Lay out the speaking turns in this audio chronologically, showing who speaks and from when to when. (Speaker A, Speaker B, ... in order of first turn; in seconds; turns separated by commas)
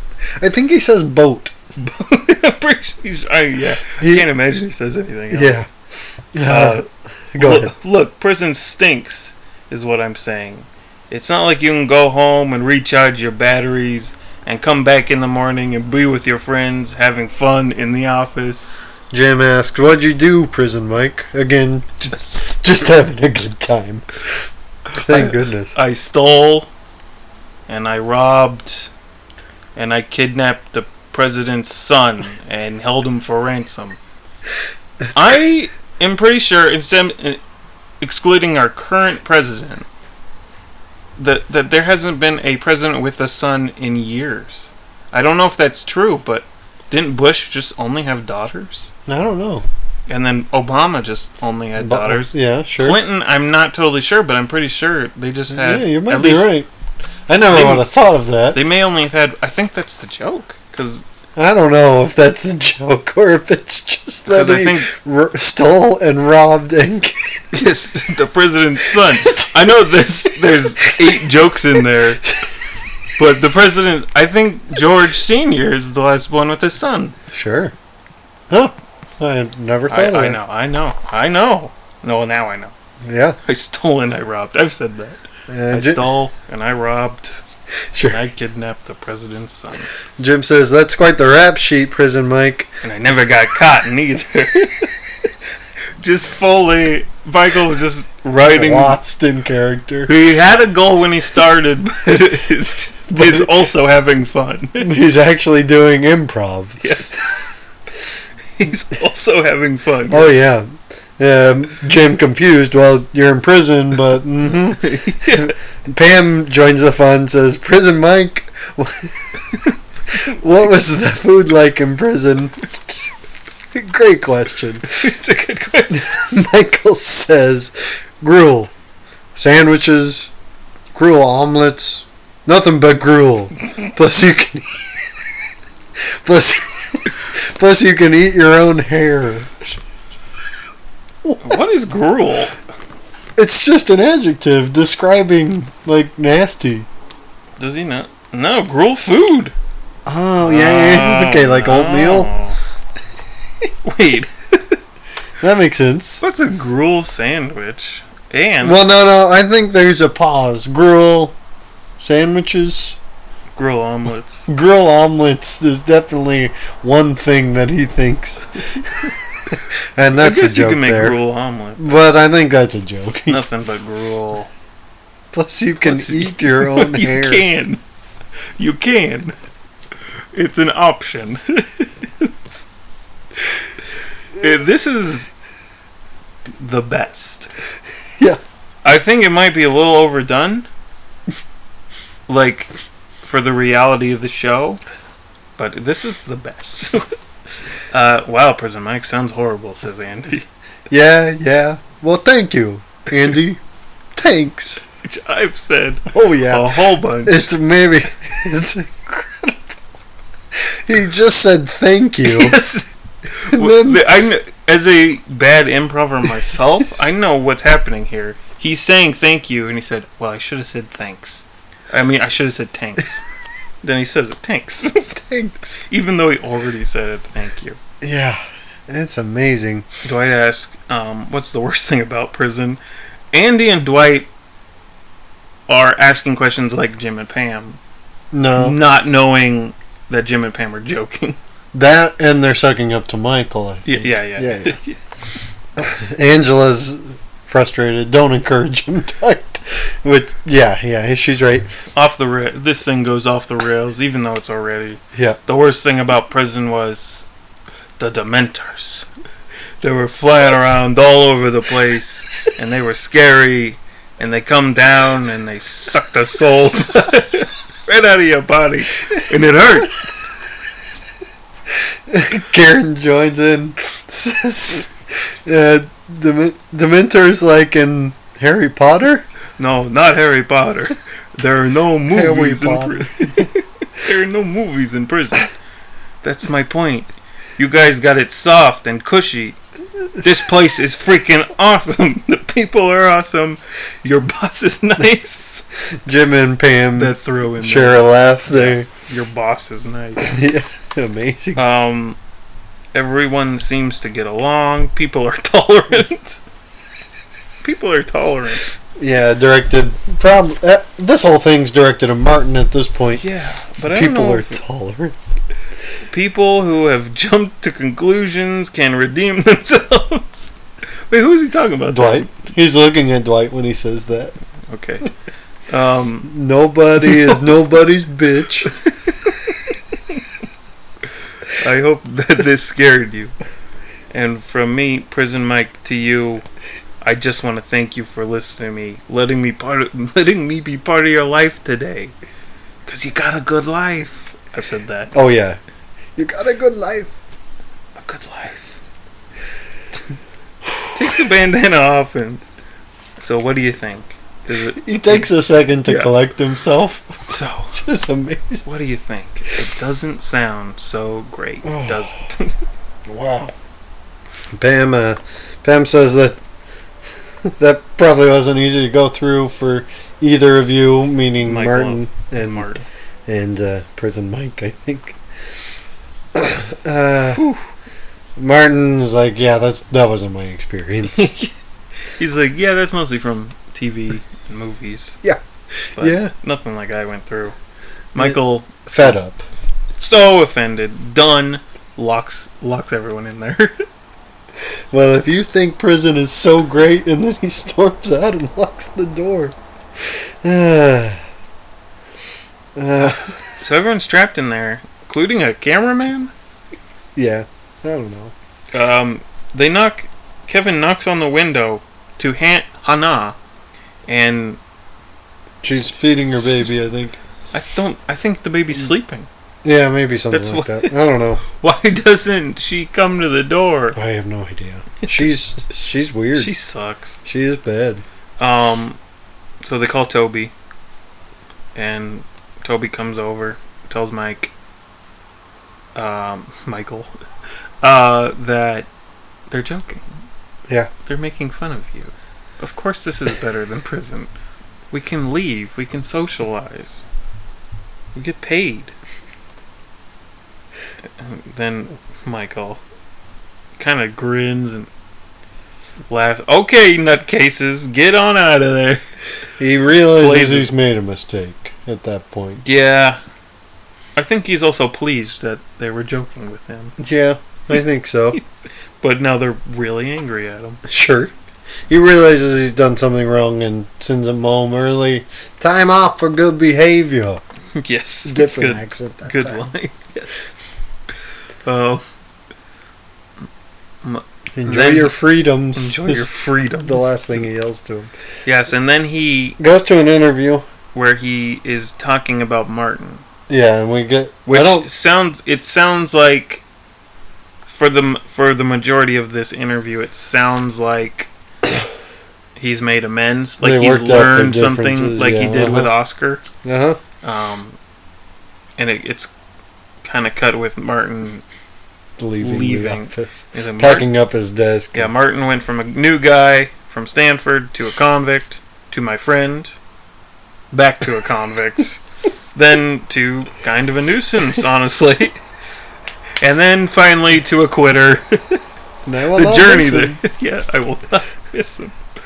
Speaker A: 0.4-1.5, Speaker B: 1.8-5.7, Speaker A: 3.9-4.3, Speaker A: 5.3-5.7, Speaker A: 6.3-7.7, Speaker B: 6.4-6.8, Speaker B: 7.4-18.8, Speaker A: 19.1-25.7, Speaker B: 25.0-26.7, Speaker B: 27.7-28.9, Speaker B: 29.7-34.0, Speaker B: 35.1-37.4, Speaker B: 38.0-39.9, Speaker B: 41.2-48.9, Speaker A: 49.1-49.6, Speaker B: 50.1-56.5, Speaker A: 51.8-53.0, Speaker A: 55.5-56.7, Speaker A: 57.3-58.6, Speaker B: 57.5-57.9, Speaker B: 58.5-61.0, Speaker A: 61.4-67.4, Speaker B: 64.3-64.9, Speaker B: 67.5-72.2, Speaker A: 68.9-69.7, Speaker A: 70.4-71.2, Speaker A: 71.7-72.5, Speaker B: 73.2-77.2, Speaker A: 77.3-77.7, Speaker A: 78.5-80.4, Speaker B: 79.9-82.7, Speaker A: 83.0-83.4, Speaker B: 83.4-87.4, Speaker A: 85.5-86.0, Speaker A: 87.9-88.2, Speaker B: 88.0-89.9, Speaker A: 90.2-92.7, Speaker B: 92.8-94.9, Speaker B: 96.0-99.0, Speaker A: 98.4-100.1, Speaker B: 100.1-104.9, Speaker A: 103.1-103.5, Speaker A: 104.8-106.8, Speaker B: 106.8-107.4, Speaker B: 108.6-110.3, Speaker A: 110.1-119.4, Speaker B: 114.6-115.5, Speaker A: 120.1-123.0, Speaker A: 123.7-124.9, Speaker B: 124.9-126.2, Speaker A: 125.9-128.7, Speaker A: 129.3-130.3, Speaker A: 130.9-134.9, Speaker A: 136.0-139.7, Speaker A: 141.2-141.6, Speaker B: 141.4-142.5, Speaker A: 143.4-146.9, Speaker B: 147.6-149.5, Speaker A: 150.1-152.3, Speaker B: 150.4-152.6, Speaker B: 153.6-154.8, Speaker A: 155.4-156.2, Speaker B: 156.2-158.8, Speaker A: 158.6-161.3, Speaker A: 162.0-163.0, Speaker B: 163.6-164.5, Speaker A: 164.5-171.2, Speaker B: 170.2-172.0, Speaker A: 171.8-173.4, Speaker B: 173.3-174.5, Speaker A: 175.3-177.4, Speaker B: 175.8-177.8, Speaker B: 178.6-179.3, Speaker B: 180.3-182.6, Speaker B: 184.4-185.3, Speaker B: 186.6-187.5, Speaker B: 188.8-190.7, Speaker B: 192.3-192.7, Speaker B: 193.2-194.8, Speaker B: 195.6-197.1, Speaker B: 197.9-200.5, Speaker A: 200.9-203.6, Speaker A: 204.2-204.8, Speaker B: 205.0-207.5, Speaker A: 206.1-209.8, Speaker A: 210.5-212.6, Speaker B: 212.2-223.2, Speaker A: 213.5-214.1, Speaker B: 223.8-225.2, Speaker A: 225.2-225.7, Speaker B: 225.7-227.8, Speaker A: 228.0-229.9, Speaker B: 230.0-232.8, Speaker B: 233.3-234.3, Speaker B: 235.7-237.8, Speaker A: 238.3-238.8, Speaker B: 238.6-241.4, Speaker A: 241.7-244.8, Speaker B: 243.8-245.0, Speaker A: 245.8-251.7, Speaker B: 251.9-257.3, Speaker A: 255.1-255.4, Speaker B: 258.0-259.1, Speaker B: 259.8-269.9, Speaker A: 272.1-279.3, Speaker B: 279.6-285.5, Speaker A: 282.1-283.4, Speaker B: 286.2-289.6, Speaker B: 290.2-295.6, Speaker A: 296.0-298.9, Speaker B: 296.9-300.3, Speaker A: 300.2-301.6, Speaker B: 301.6-302.2, Speaker B: 302.9-306.4, Speaker B: 307.6-308.7, Speaker A: 309.0-313.2, Speaker B: 313.2-314.6, Speaker A: 313.8-315.2, Speaker B: 316.0-322.3, Speaker A: 321.9-324.4, Speaker B: 324.7-325.1, Speaker B: 325.7-326.3, Speaker A: 326.2-328.7, Speaker B: 327.1-327.3, Speaker B: 328.6-329.6, Speaker B: 331.5-333.3, Speaker B: 334.1-336.4, Speaker B: 337.0-342.1, Speaker B: 342.8-345.1, Speaker A: 345.1-345.6, Speaker A: 346.1-347.1, Speaker B: 347.9-348.8, Speaker B: 350.9-352.4, Speaker B: 353.2-355.3, Speaker A: 354.8-358.6, Speaker B: 355.8-356.1, Speaker B: 357.3-357.8, Speaker B: 358.6-362.6, Speaker A: 361.6-362.1, Speaker A: 363.1-363.5, Speaker A: 364.5-366.4, Speaker A: 367.4-372.7, Speaker B: 371.4-372.8, Speaker A: 373.3-375.2, Speaker A: 376.3-377.4, Speaker B: 377.3-377.7, Speaker A: 378.4-381.4, Speaker B: 381.1-381.5, Speaker B: 382.1-385.2, Speaker B: 385.9-387.5, Speaker A: 386.0-386.3, Speaker B: 388.1-389.2, Speaker A: 388.1-389.4, Speaker B: 390.0-393.8, Speaker A: 394.9-401.2, Speaker A: 402.7-403.6, Speaker B: 403.0-406.3, Speaker A: 407.1-408.3, Speaker B: 408.7-413.4, Speaker B: 414.1-414.6, Speaker A: 415.6-417.2, Speaker B: 417.5-419.3, Speaker A: 419.6-421.4, Speaker B: 420.3-424.0, Speaker A: 423.9-426.5, Speaker B: 425.0-425.3, Speaker B: 426.3-427.2, Speaker A: 427.2-428.0, Speaker B: 428.4-429.0, Speaker B: 429.6-430.5, Speaker B: 431.7-434.5, Speaker B: 435.9-437.1, Speaker B: 437.8-438.9, Speaker B: 439.5-440.2, Speaker B: 441.0-444.3, Speaker B: 444.9-447.0, Speaker B: 448.1-448.9, Speaker B: 451.2-452.8, Speaker B: 453.8-454.9, Speaker B: 456.1-459.0, Speaker A: 459.6-462.6, Speaker B: 460.2-460.7, Speaker B: 462.6-463.2, Speaker B: 464.1-466.9, Speaker A: 467.0-468.4, Speaker B: 469.0-470.8, Speaker A: 470.8-471.3, Speaker A: 471.9-477.4, Speaker B: 477.8-480.4, Speaker A: 478.2-479.6, Speaker B: 481.6-482.0, Speaker B: 484.0-485.2, Speaker A: 484.6-486.3, Speaker B: 485.7-487.1, Speaker A: 486.8-488.1, Speaker B: 488.4-489.6, Speaker A: 489.6-490.6, Speaker B: 490.9-493.2, Speaker A: 493.5-494.9, Speaker B: 494.4-496.6, Speaker B: 497.6-501.3, Speaker B: 502.6-506.4, Speaker A: 503.6-505.9, Speaker A: 506.6-507.0, Speaker B: 507.2-507.8, Speaker B: 508.8-509.3, Speaker B: 510.0-511.4, Speaker A: 512.2-515.1, Speaker B: 512.4-514.1, Speaker B: 514.9-519.8, Speaker B: 520.7-522.0, Speaker B: 522.5-525.4, Speaker B: 526.4-528.6, Speaker A: 529.0-530.2, Speaker B: 529.3-531.9